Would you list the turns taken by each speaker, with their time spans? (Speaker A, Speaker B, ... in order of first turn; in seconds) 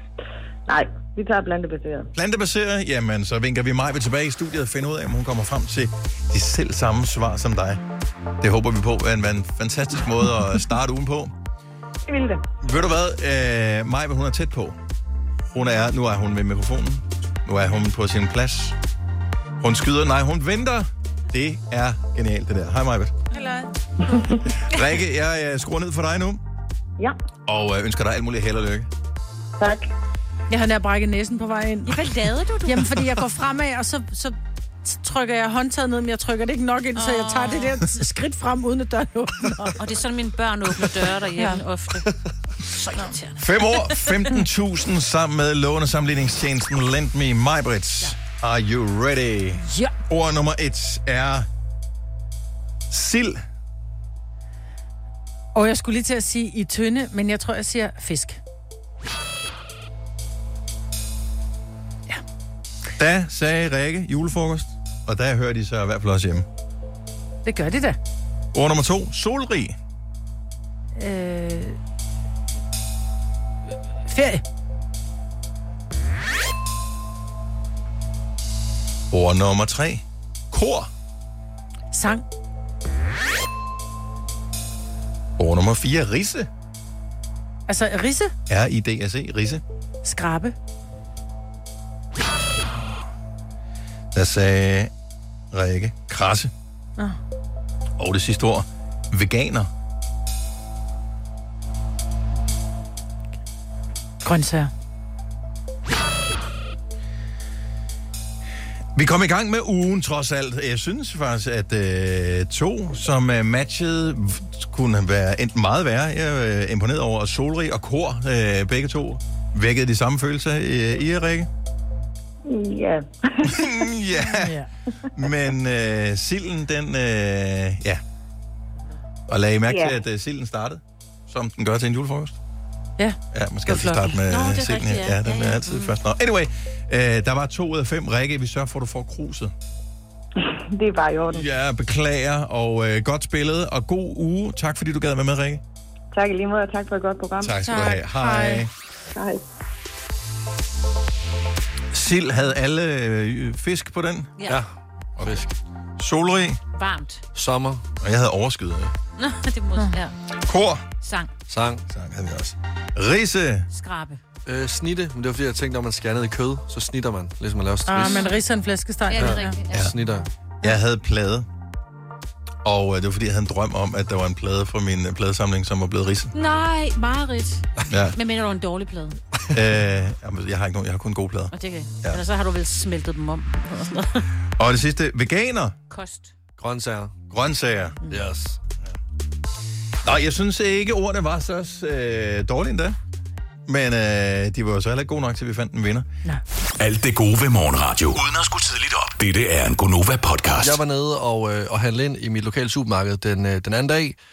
Speaker A: 0.7-2.1, 12.1-12.4, 29.6-29.9, 122.5-123.9, 129.7-130.0, 140.4-141.5, 146.1-147.6, 149.2-149.4
Speaker B: 2.1-7.8, 8.4-11.3, 12.6-14.8, 15.5-18.8, 19.6-23.1, 24.6-26.4, 27.5-28.9, 43.4-51.5, 52.9-53.4, 63.0-66.5, 68.5-69.8, 79.1-80.9, 85.4-86.5, 88.5-89.6, 94.1-94.9, 95.5-96.5, 98.0-99.7, 109.0-121.5, 123.4-128.0, 129.3-132.4, 133.3-139.5, 141.3-145.6, 147.4-148.7, 151.9-154.3, 155.2-155.4, 156.0-156.6, 158.0-158.9, 160.4-160.9, 161.9-163.7, 170.6-171.5, 172.6-176.3, 177.9-178.2, 179.5-182.2, 184.6-185.8, 187.3-188.0, 190.0-193.0, 193.7-196.1
Speaker C: 23.3-23.7, 30.5-32.1, 32.6-39.8, 41.4-41.6, 49.6-49.9, 55.5-58.4, 67.5-68.0, 71.0-71.8, 74.1-74.4, 81.9-82.2, 87.7-88.3, 90.0-90.5, 104.2-104.7, 124.3-124.7, 133.0-134.2, 147.6-148.7, 167.9-169.6
Speaker D: 31.9-33.0, 37.0-37.8, 39.8-42.1, 42.7-44.2, 134.2-136.0, 156.7-157.2, 159.2-160.1, 161.0-161.3, 163.7-164.2, 168.0-168.4, 169.1-169.9, 176.3-179.2, 181.5-184.3, 185.9-186.3
Speaker E: 155.2-155.5, 157.3-157.8, 161.5-161.8, 164.5-168.3, 169.2-170.3, 186.6-187.2, 188.1-188.6, 200.6-204.2
Speaker F: 196.8-200.8